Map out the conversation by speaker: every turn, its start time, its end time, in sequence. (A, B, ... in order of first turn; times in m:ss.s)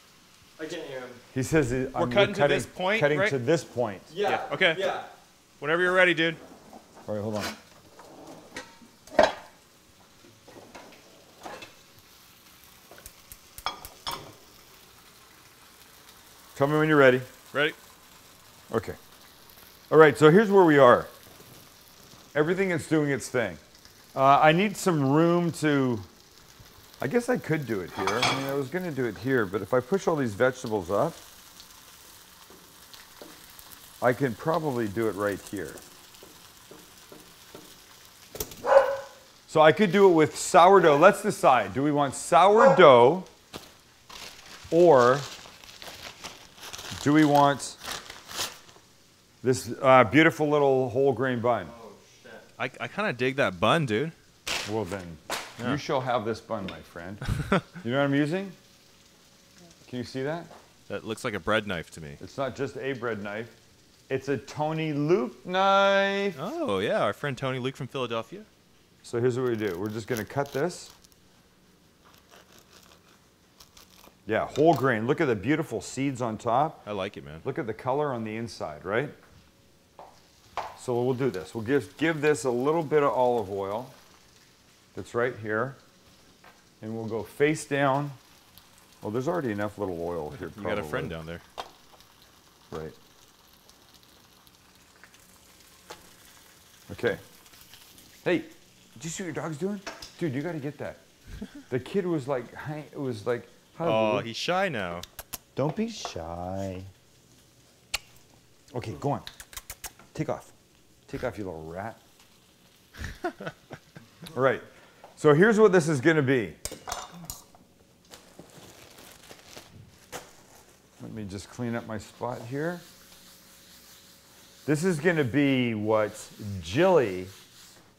0:00.6-0:01.2 A
0:01.3-0:04.1 B
0:02.0-0:03.4 C
0:04.1-0:05.1 A
0:04.2-0:04.9 C
0:05.6-0:06.4 C
0:07.0-0:07.5 B
0:16.5-0:17.3 B
0:18.7-0:19.0 B
0:19.9-0:21.1 B
0:22.3-0:23.6 B
0:24.1-0:26.1 B
0:27.0-0:31.2 B
0:34.0-0:35.8 B
0:39.5-0:43.3 B
0:44.7-0:45.3 B
0:47.0-0:47.8 B
0:49.4-0:51.7 B
0:51.6-0:52.4 A
0:52.6-0:54.1 C
0:54.6-0:57.2 B
0:57.3-0:57.6 C
0:57.8-0:58.6 B
0:59.8-1:00.5 B
1:00.9-1:02.2 C
1:02.2-1:03.5 B
1:04.1-1:06.4 B
1:06.4-1:08.5 C
1:09.0-1:10.9 B
1:14.2-1:16.8 B
1:16.8-1:17.4 C
1:17.4-1:19.1 B
1:20.8-1:23.9 B
1:24.9-1:25.8 B
1:26.8-1:28.2 B
1:29.0-1:31.1 B
1:30.4-1:31.4 C
1:32.7-1:33.0 B
1:36.9-1:37.2 B
1:38.2-1:41.0 B
1:41.7-1:44.3 B
1:43.8-1:45.0 C
1:45.6-1:46.9 B
1:48.7-1:49.3 B
1:50.1-1:50.5 B
1:51.1-1:52.0 B
1:54.3-1:54.6 B
1:55.2-1:56.6 B
2:01.0-2:02.8 B
2:04.6-2:07.3 B